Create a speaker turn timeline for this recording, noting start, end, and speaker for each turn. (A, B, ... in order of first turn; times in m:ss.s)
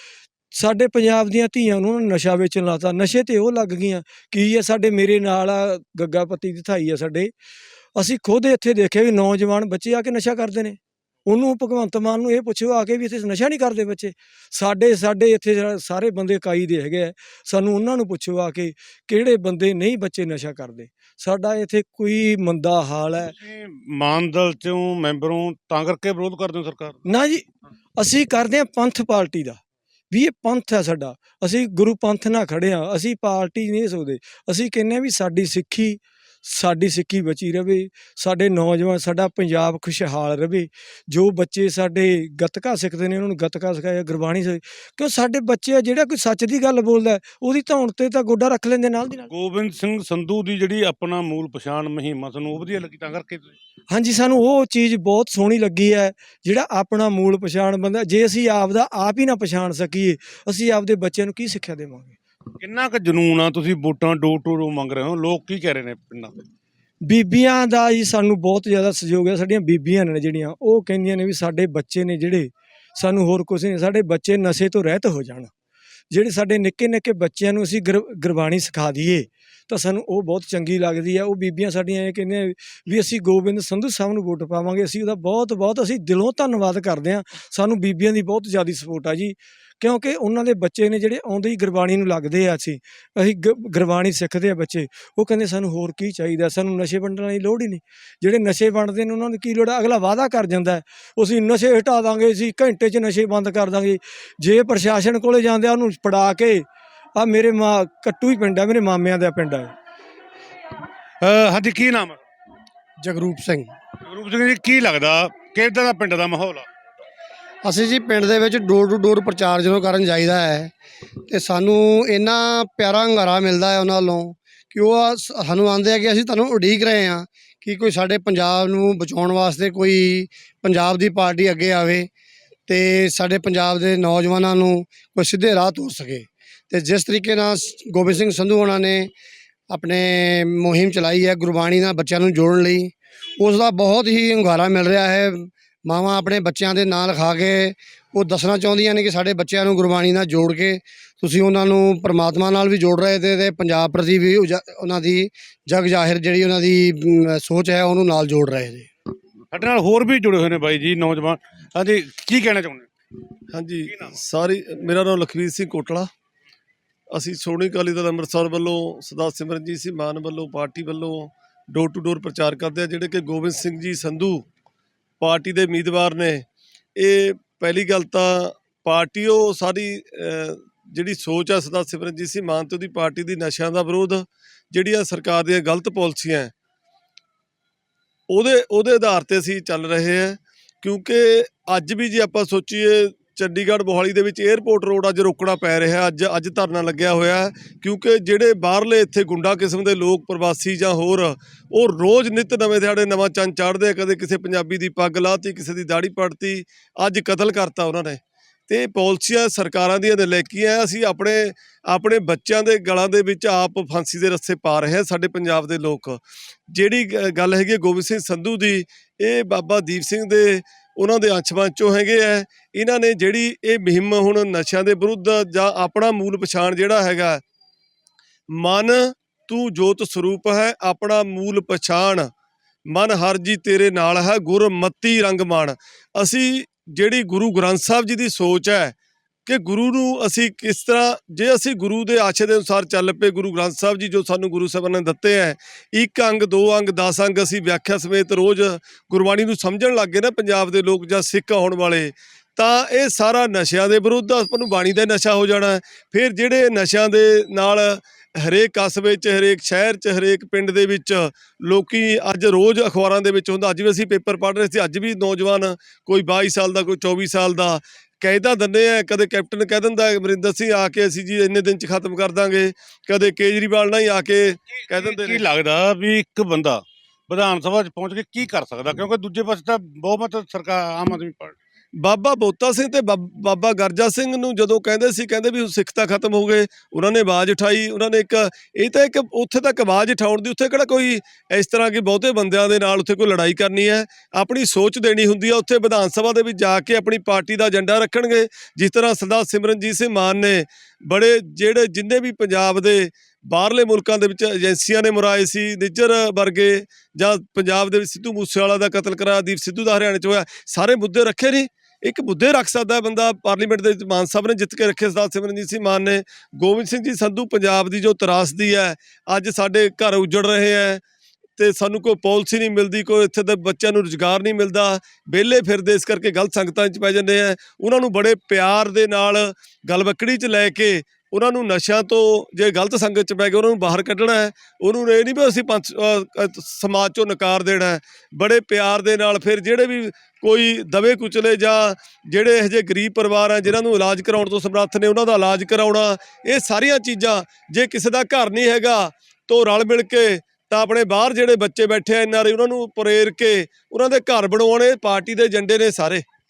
0:00.6-0:07.3 A
0:08.0-0:23.3 A
0:23.2-0:27.0 B
0:27.0-0:27.4 A
0:28.0-0:29.6 A
0:30.1-0:49.3 A
0:49.3-0:53.5 B
0:53.9-1:02.2 A
1:02.6-1:06.4 B
1:07.0-1:15.5 A
1:16.1-1:46.6 A
1:47.2-1:49.7 A
1:51.2-1:52.2 B
1:53.0-1:53.7 C
1:54.0-1:56.6 B
1:57.6-2:00.7 C
2:01.3-2:12.1 C
2:12.7-2:19.1 C
2:19.7-2:38.9 C
2:39.5-2:42.9 B
2:43.5-2:46.1 D
2:43.9-2:44.1 B
2:47.1-2:54.4 D
2:55.2-2:56.4 D
2:57.0-3:06.5 D
3:08.3-3:47.4 D
3:48.5-3:52.3 D
3:52.9-3:58.9 D
3:59.4-4:35.4 D
4:34.9-4:41.5 B
4:42.0-5:21.0 D
5:21.6-5:56.2 D